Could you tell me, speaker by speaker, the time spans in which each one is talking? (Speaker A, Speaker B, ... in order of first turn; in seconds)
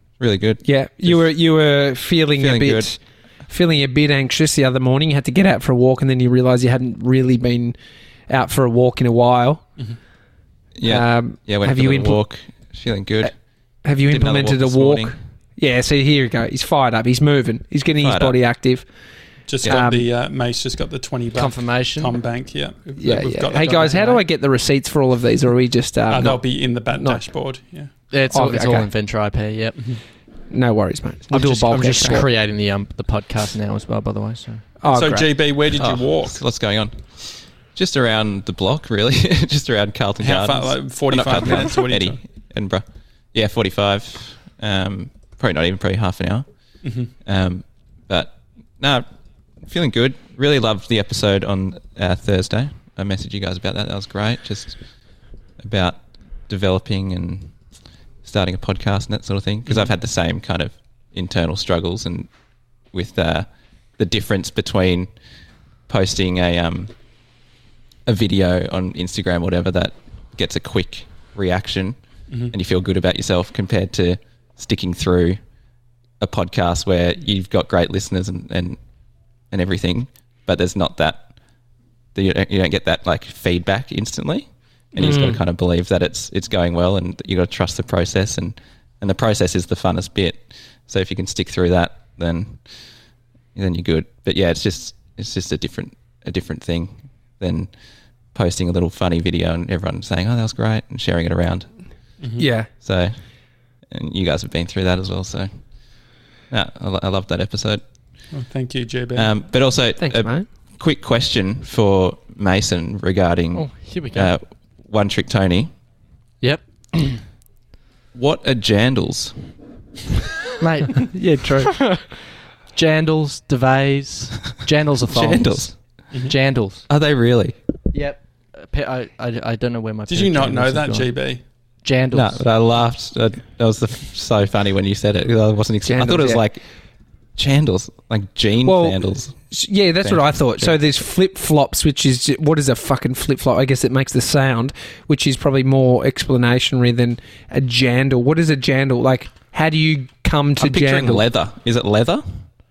Speaker A: 0.2-1.2, 2.4-2.9, 10.8-13.3, 14.1-15.1, 18.0-18.4, 35.8-46.5, 47.2-49.1, 49.6-54.8, 55.6-57.5, 58.2-62.3, 62.9-65.1, 65.9-66.9, 68.1-72.0, 72.5-75.4, 76.2-78.8, 79.5-81.3, 82.2-92.6, 93.5-97.7, 98.3-101.7, 102.8-103.2, 103.9-105.5, 106.5-107.8, 109.2-115.7, 118.1-119.3, 125.1-125.8, 126.9-127.6, 132.1-136.6, 137.4-139.4, 140.0-140.8, 150.6-152.2
Speaker B: 0.7-7.8, 8.3-9.6, 10.8-12.2, 13.8-18.9, 19.6-20.1, 23.0-27.2, 28.3-28.9, 30.5-32.3, 34.8-35.3, 85.0-85.4, 102.4-102.7, 110.0-110.5, 121.1-121.8, 135.8-136.4, 138.6-151.2
Speaker C: 19.5-24.2, 26.1-27.9, 34.9-36.4, 40.2-42.2, 46.8-47.1, 108.3-109.3, 130.1-131.4
Speaker D: 21.4-22.2, 23.8-24.1, 28.1-29.9, 31.3-34.7, 113.5-114.3, 116.4-117.2, 120.6-121.1, 121.8-122.0, 122.7-126.9, 127.9-131.1, 131.8-132.4